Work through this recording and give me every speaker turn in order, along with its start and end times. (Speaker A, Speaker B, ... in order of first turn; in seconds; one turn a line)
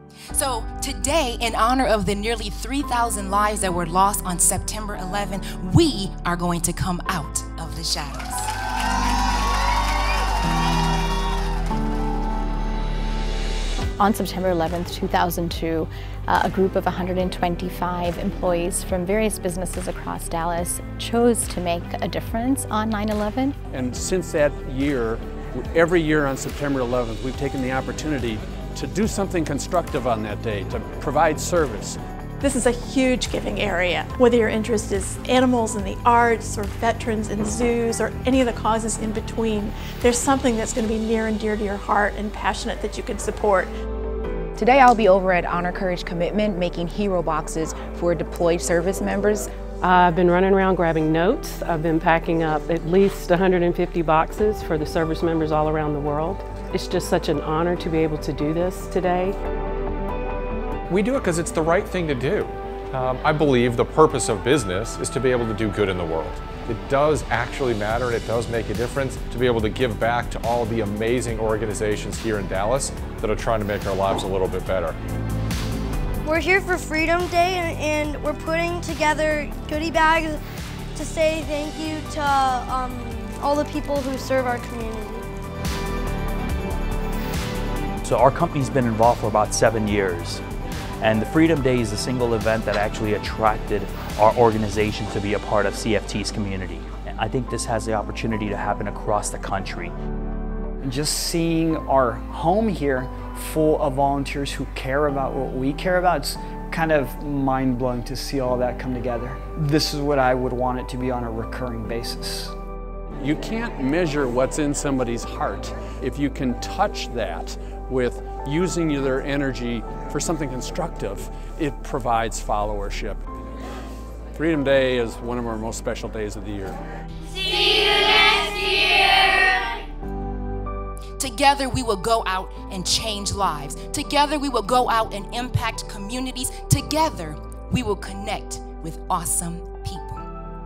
Speaker A: 0.3-8.5
Speaker B: 14.0-23.6
Speaker C: 23.7-32.0
Speaker D: 32.4-43.7
Speaker E: 44.6-49.5
Speaker F: 49.8-59.4
Speaker G: 60.9-75.0
Speaker H: 76.2-80.4
Speaker H: 81.0-85.3
Speaker I: 88.0-90.4
Speaker I: 91.0-99.9
Speaker J: 100.8-112.5
Speaker C: 113.2-123.2
Speaker C: 124.3-126.8
Speaker A: 131.2-140.3